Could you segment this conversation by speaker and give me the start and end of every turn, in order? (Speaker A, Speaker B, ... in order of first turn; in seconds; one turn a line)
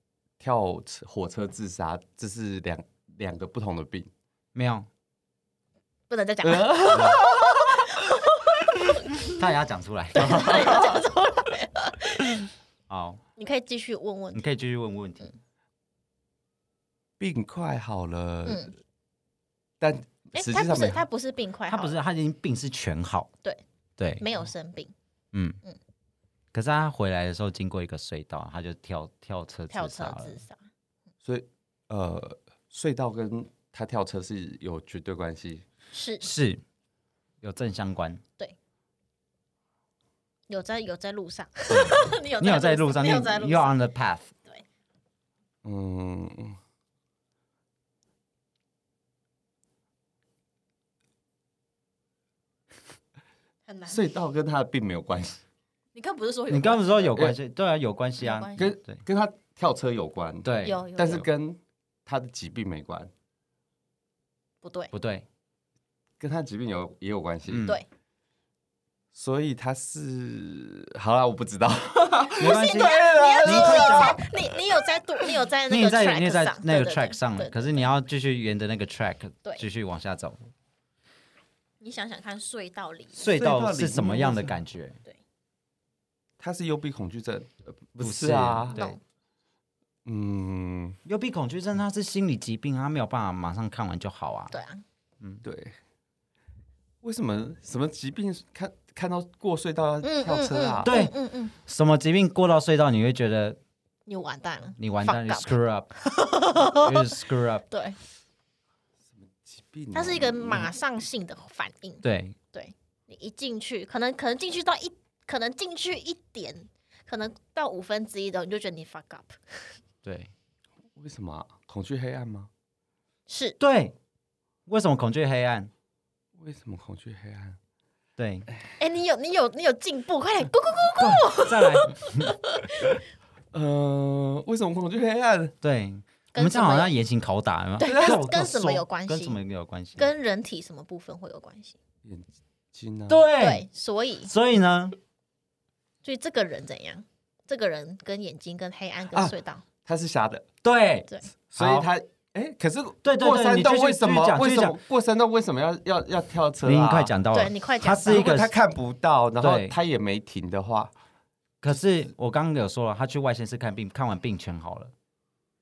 Speaker A: 0.4-4.1
Speaker B: 4.5-4.9
Speaker C: 6.1-9.3
Speaker A: 6.4-8.0
Speaker B: 6.9-7.2
Speaker B: 9.2-10.9
Speaker C: 10.1-12.4
Speaker B: 12.9-13.2
Speaker C: 13.4-14.4
Speaker B: 14.3-15.3
Speaker A: 17.2-18.7
Speaker C: 18.5-18.7
Speaker A: 19.8-21.1
Speaker C: 20.3-21.9
Speaker B: 21.7-23.3
Speaker B: 24.0-24.2
Speaker C: 24.2-24.9
Speaker B: 25.3-25.6
Speaker B: 26.5-30.4
Speaker C: 29.7-30.6
Speaker A: 31.2-35.6
Speaker C: 35.9-36.3
Speaker B: 36.2-36.6
Speaker B: 37.4-38.2
Speaker C: 40.5-43.8
Speaker B: 41.7-44.3
Speaker A: 45.6-46.6
Speaker C: 53.7-54.0
Speaker A: 53.9-55.4
Speaker C: 56.0-57.2
Speaker B: 56.5-59.0
Speaker C: 58.2-58.7
Speaker A: 58.6-63.1
Speaker B: 60.5-61.2
Speaker C: 60.6-61.3
Speaker C: 64.6-64.9
Speaker B: 64.9-65.3
Speaker A: 66.2-67.7
Speaker B: 67.5-67.8
Speaker A: 69.1-75.0
Speaker C: 72.3-77.9
Speaker B: 72.4-74.2
Speaker B: 75.7-80.4
Speaker C: 81.8-83.3
Speaker B: 83.2-85.0
Speaker A: 83.3-84.6
Speaker A: 86.4-88.8
Speaker B: 88.0-89.0
Speaker C: 88.7-89.0
Speaker A: 90.1-91.0
Speaker B: 91.0-94.5
Speaker C: 94.5-94.8
Speaker A: 95.4-95.8
Speaker A: 97.0-100.9
Speaker C: 100.0-101.5
Speaker B: 100.8-103.6
Speaker C: 104.1-108.0
Speaker B: 104.8-105.9
Speaker B: 106.7-107.7
Speaker A: 109.2-110.7
Speaker C: 109.9-119.8
Speaker B: 112.0-112.4
Speaker B: 120.0-120.3
Speaker A: 121.0-122.5
Speaker C: 123.3-123.6
Speaker B: 123.6-124.0
Speaker B: 124.7-125.7
Speaker A: 126.4-127.6
Speaker B: 128.2-128.5
Speaker C: 128.8-133.0
Speaker B: 131.0-132.3
Speaker A: 133.5-135.6
Speaker B: 135.6-140.1
Speaker C: 136.3-136.9
Speaker C: 137.8-139.4
Speaker A: 137.9-138.2
Speaker C: 140.0-141.8
Speaker A: 142.1-143.3
Speaker B: 143.1-143.7
Speaker C: 143.4-144.3
Speaker B: 144.2-145.0
Speaker C: 146.0-149.6
Speaker A: 149.1-150.5
Speaker B: 150.6-151.9
Speaker A: 151.5-157.1
Speaker B: 153.0-154.8
Speaker B: 156.6-158.5
Speaker C: 157.3-158.3
Speaker A: 158.1-160.9
Speaker B: 159.4-159.8
Speaker B: 161.6-164.9